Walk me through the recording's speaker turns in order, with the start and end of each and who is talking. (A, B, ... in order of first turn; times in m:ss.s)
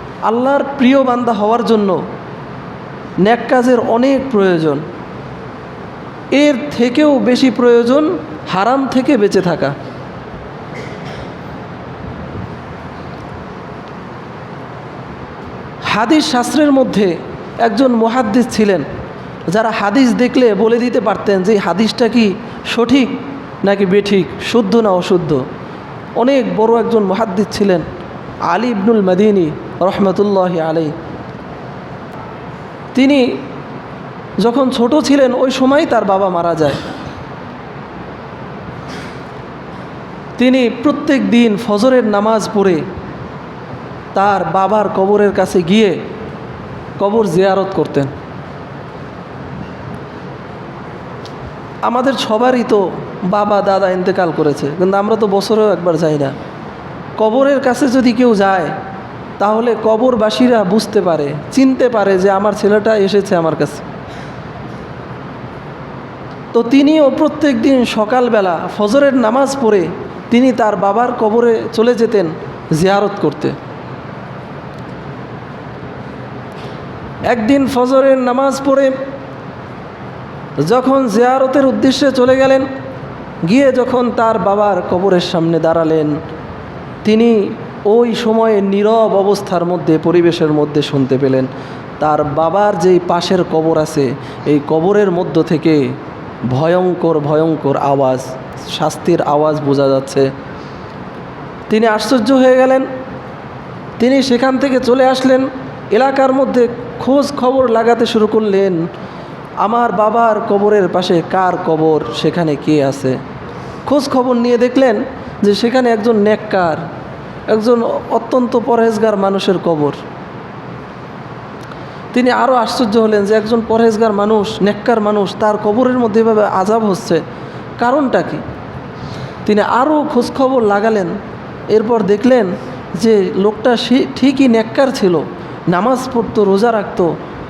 0:00.2-0:02.0 A
0:03.2-0:04.8 A
0:06.3-0:09.7 A
0:15.9-0:18.8 A
0:19.5-0:25.4 A
0:26.2-0:27.8 A
0:28.5-0:30.9 A
0:32.9-0:33.3 A
0:34.4-0:36.8 A
0:40.4-0:42.8 A
0:44.1-0:46.0 A
0:47.0-0:48.1 A
0:51.8-0:56.3 A
0:57.2-0:58.7 A
0:59.4-1:03.9 A
1:06.5-1:13.6 A
1:17.3-1:18.9 A
1:20.6-1:22.7 A
1:23.4-1:26.2 A
1:27.0-1:31.5 A
1:32.0-1:35.9 A
1:36.5-1:40.3 A
1:41.7-1:42.9 A
1:44.0-1:48.8 A
1:49.6-1:53.2 A
1:53.8-1:56.8 A
1:57.5-2:00.0 A
2:02.1-2:07.2 A
2:07.8-2:08.4 A
2:09.4-2:11.2 A
2:11.7-2:17.1 A